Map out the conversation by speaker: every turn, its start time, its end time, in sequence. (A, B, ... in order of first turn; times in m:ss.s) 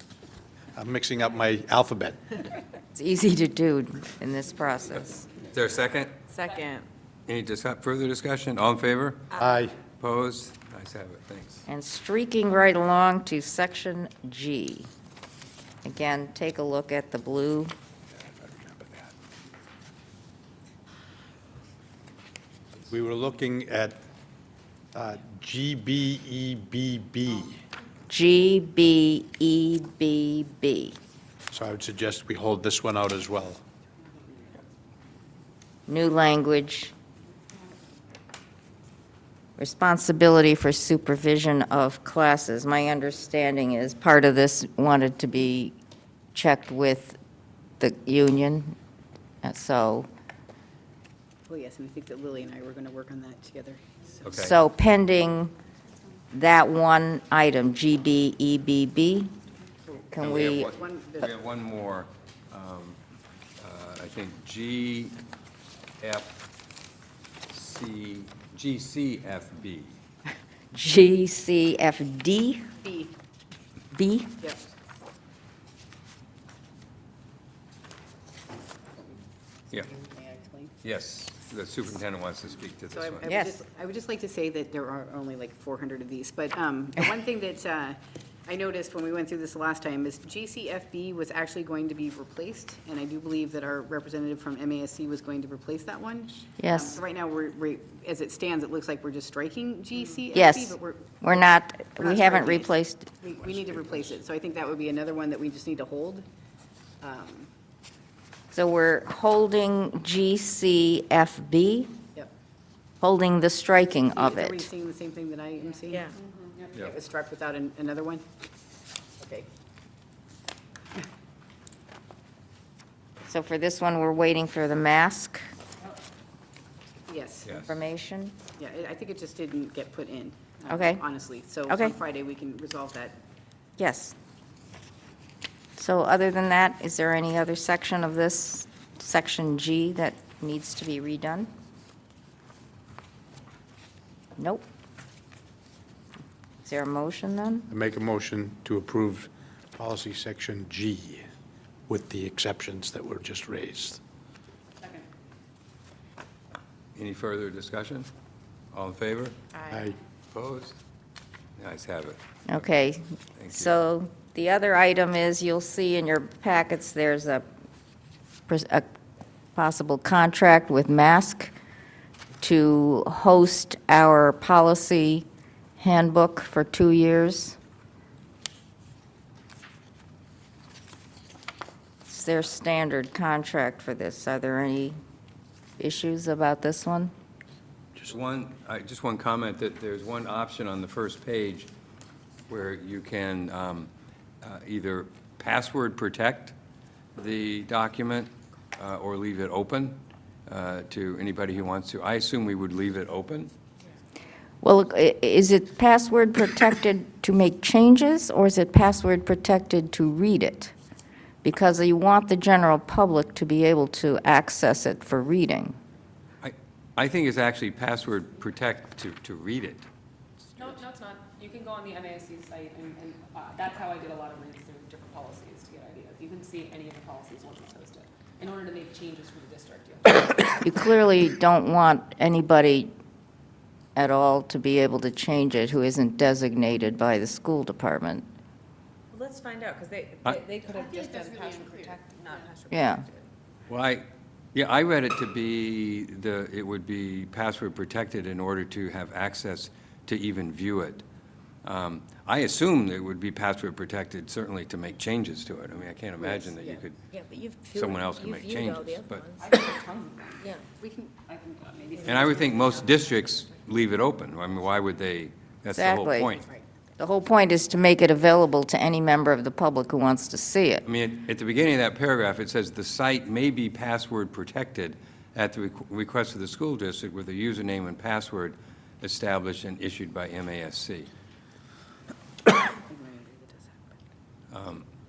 0:00.7-0:02.4 A
0:02.9-0:05.3 B
0:05.4-0:06.2 C
0:06.6-0:06.8 D
0:07.3-0:09.3 C
0:09.3-0:09.7 A
0:10.0-0:11.6 C
0:11.7-0:14.9 B
0:15.8-0:17.7 B
0:18.1-0:19.1 A
0:22.9-0:24.0 A
0:24.9-0:27.6 A
0:28.1-0:31.0 B
0:31.5-0:33.6 A
0:35.9-0:36.9 B
0:39.6-0:45.8 B
0:46.3-0:47.2 B
0:47.8-0:48.7 B
0:49.4-0:50.1 B
0:51.5-0:54.5 E
0:54.2-0:54.6 C
0:54.3-0:55.5 B
0:56.3-0:59.3 B
0:59.9-1:01.3 E
1:00.1-1:00.7 B
1:00.2-1:03.0 C
1:03.6-1:05.2 C
1:06.0-1:06.4 C
1:07.5-1:10.0 C
1:10.7-1:12.7 B
1:12.8-1:13.1 E
1:13.9-1:14.4 B
1:19.7-1:20.7 E
1:20.8-1:23.3 C
1:22.9-1:41.2 E
1:23.2-1:23.6 B
1:36.6-1:37.0 B
1:40.3-1:43.1 B
1:42.0-1:42.7 E
1:43.2-1:46.2 E
1:47.0-1:47.5 E
1:48.5-1:51.9 B
1:53.0-1:54.7 B
1:54.1-1:56.1 E
1:56.1-1:56.7 F
1:56.7-1:58.2 E
1:59.2-1:59.5 E
2:03.2-2:05.4 B
2:07.1-2:07.6 E
2:07.6-2:08.3 B
2:08.6-2:13.2 E
2:10.7-2:11.0 B
2:11.7-2:12.0 B
2:13.8-2:14.1 B
2:15.8-2:21.5 B
2:24.4-2:24.6 B
2:26.6-2:27.7 B
2:27.7-2:31.2 A
2:31.9-2:34.0 A
2:36.9-2:38.1 C
2:38.7-2:39.4 C
2:39.7-2:40.0 A
2:40.3-2:40.8 C
2:41.6-2:42.2 C
2:42.5-2:47.4 B
2:43.4-2:43.7 C
2:48.5-2:48.9 B
2:49.6-2:51.5 B
2:52.4-2:55.2 B
2:55.8-2:57.6 B
3:02.1-3:05.0 B
3:05.8-3:07.1 B
3:08.1-3:11.7 C
3:12.5-3:13.9 C
3:14.4-3:16.5 C
3:17.2-3:23.5 C
3:24.6-3:30.7 B
3:31.4-3:35.8 B
3:36.4-3:39.9 C
3:40.6-3:50.6 F
3:50.6-3:52.9 B
3:54.0-3:58.2 B
3:59.1-4:03.2 D
4:00.6-4:02.6 F
4:02.7-4:03.0 B
4:03.7-4:11.0 C
4:11.6-4:17.0 C
4:16.2-4:16.8 E
4:17.1-4:19.3 G
4:17.6-4:19.3 C
4:19.4-4:20.6 F
4:20.8-4:22.8 E
4:21.3-4:22.5 F
4:22.0-4:26.5 C
4:25.7-4:26.4 B
4:27.0-4:30.8 B
4:30.8-4:41.1 C
4:42.8-4:44.0 E
4:44.5-4:44.8 C